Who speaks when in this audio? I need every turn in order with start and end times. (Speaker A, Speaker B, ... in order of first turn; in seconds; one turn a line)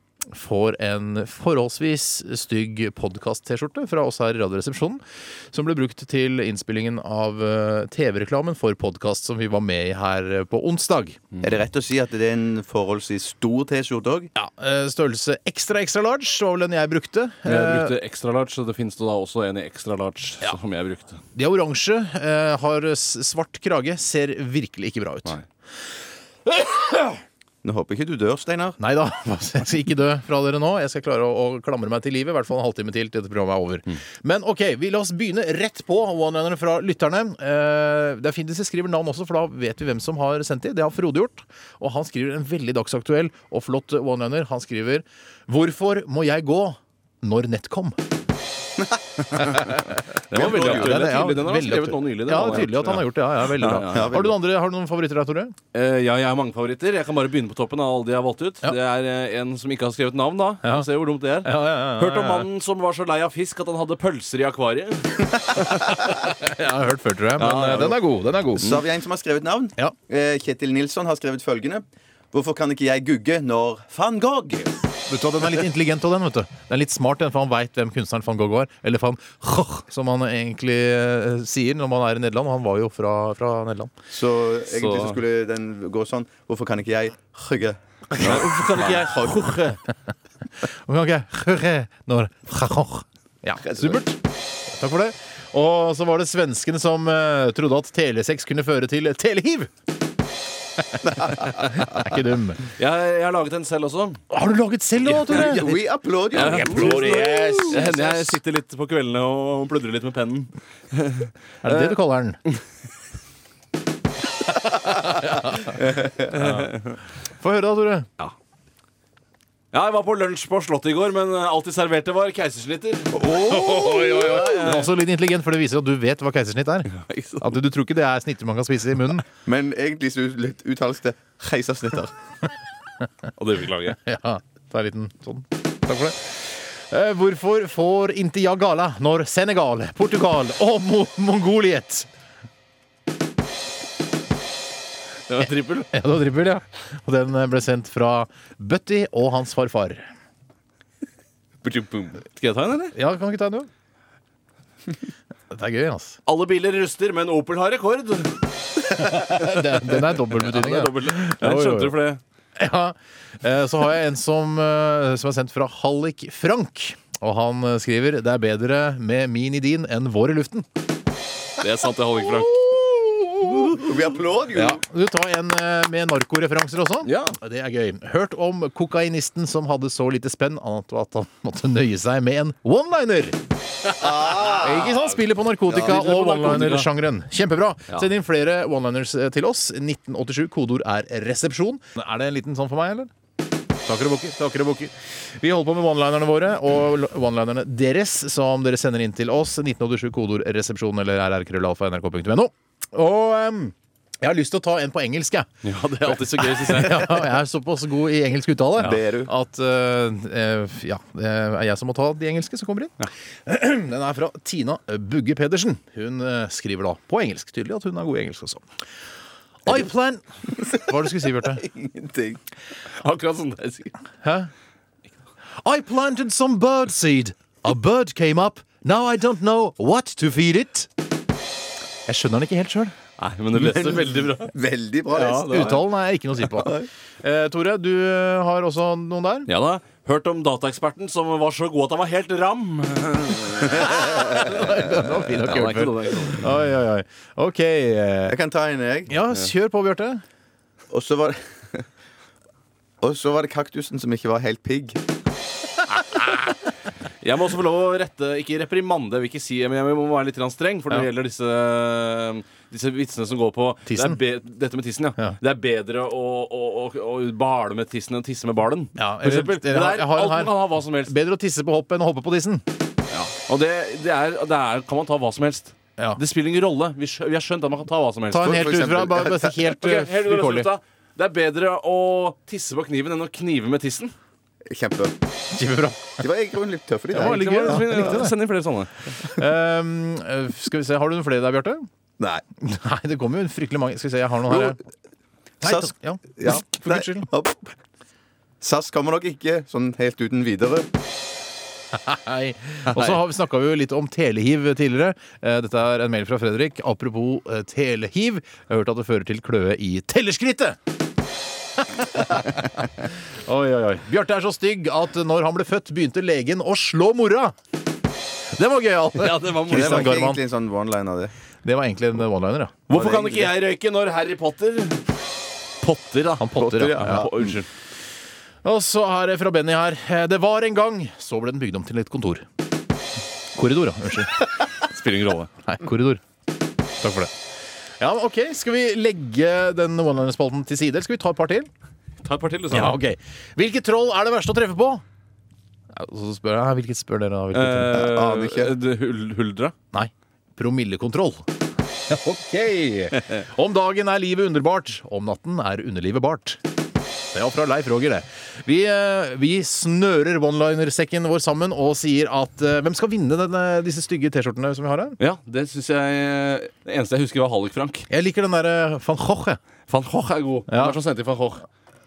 Speaker A: 0.3-11.2
Speaker B: 11.4-14.3
Speaker A: 14.3-17.9
Speaker C: 17.4-21.2
Speaker A: 21.4-25.4
Speaker A: 26.6-27.2
Speaker B: 27.6-28.8
Speaker A: 28.8-48.0
Speaker B: 49.1-49.7
Speaker A: 49.5-50.0
Speaker C: 50.3-54.1
Speaker B: 50.3-51.1
Speaker A: 50.6-55.5
Speaker B: 53.8-54.4
Speaker C: 55.7-65.9
Speaker A: 60.6-60.9
Speaker A: 61.4-62.5
Speaker A: 65.7-68.8
Speaker C: 67.4-68.0
Speaker B: 68.6-74.7
Speaker A: 75.1-83.9
Speaker B: 84.1-89.5
Speaker C: 84.7-85.2
Speaker C: 88.2-89.8
Speaker A: 90.6-99.7
Speaker A: 100.9-102.7
Speaker C: 102.8-104.2
Speaker A: 104.3-105.8
Speaker C: 105.0-105.5
Speaker B: 105.3-108.4
Speaker C: 106.3-111.3
Speaker A: 106.3-107.8
Speaker A: 111.6-112.4
Speaker A: 114.7-115.7
Speaker B: 115.7-116.4
Speaker C: 116.4-117.0
Speaker A: 116.4-116.7
Speaker A: 117.4-118.1
Speaker C: 119.7-124.9
Speaker A: 123.2-129.3
Speaker C: 127.0-127.5
Speaker B: 129.4-132.1
Speaker C: 133.4-134.0
Speaker A: 133.9-142.1
Speaker C: 145.3-145.9
Speaker A: 145.9-150.1
Speaker C: 151.6-152.9
Speaker A: 152.9-153.7
Speaker A: 155.5-156.2
Speaker C: 156.3-158.3
Speaker A: 158.9-161.9
Speaker C: 158.9-162.2
Speaker A: 162.6-170.7
Speaker C: 171.6-172.9
Speaker A: 173.3-173.6
Speaker B: 173.6-174.8
Speaker A: 174.6-183.4
Speaker C: 177.1-177.4
Speaker B: 184.0-184.9
Speaker A: 184.2-193.1
Speaker C: 185.7-186.9
Speaker A: 193.8-218.6
Speaker C: 205.6-207.3
Speaker B: 208.8-209.3
Speaker A: 219.6-221.6
Speaker B: 221.3-222.4
Speaker C: 222.9-223.9
Speaker A: 224.2-224.5
Speaker A: 225.6-230.9
Speaker A: 232.1-232.9
Speaker C: 233.2-234.5
Speaker B: 233.5-235.8
Speaker C: 235.1-235.8
Speaker A: 235.2-239.5
Speaker B: 236.5-236.9
Speaker C: 239.5-246.6
Speaker A: 243.7-248.4
Speaker B: 248.3-249.2
Speaker A: 249.1-250.2
Speaker B: 250.9-251.8
Speaker B: 253.0-255.0
Speaker C: 256.0-256.5
Speaker C: 257.2-271.1
Speaker A: 263.9-264.2
Speaker A: 269.0-272.6
Speaker C: 273.1-278.6
Speaker A: 278.3-280.7
Speaker B: 278.4-279.5
Speaker C: 279.6-284.1
Speaker B: 284.6-285.1
Speaker A: 285.6-286.2
Speaker B: 286.2-288.2
Speaker A: 287.1-288.4
Speaker C: 287.2-288.9
Speaker A: 289.1-291.9
Speaker B: 292.2-292.4
Speaker A: 292.6-294.8
Speaker B: 294.5-294.8
Speaker A: 295.6-297.3
Speaker B: 295.6-297.7
Speaker B: 298.6-300.9
Speaker A: 301.9-310.8
Speaker A: 311.8-317.6
Speaker A: 318.6-320.4
Speaker C: 319.1-320.2
Speaker B: 319.6-321.3
Speaker A: 321.6-322.8
Speaker C: 322.9-325.1
Speaker B: 322.9-323.5
Speaker C: 325.8-327.7
Speaker A: 326.4-327.3
Speaker B: 326.6-327.5
Speaker A: 328.6-332.4
Speaker A: 333.6-334.7
Speaker C: 334.7-335.5
Speaker A: 335.7-336.2
Speaker A: 337.0-337.3
Speaker A: 338.0-341.7
Speaker C: 342.2-343.0
Speaker A: 342.7-345.0
Speaker A: 345.9-348.1
Speaker C: 347.5-349.7
Speaker B: 347.9-348.8
Speaker A: 349.9-351.4
Speaker A: 352.1-356.6
Speaker A: 357.3-365.2
Speaker C: 365.2-368.1
Speaker A: 368.1-369.6
Speaker C: 369.9-371.7
Speaker A: 370.7-371.0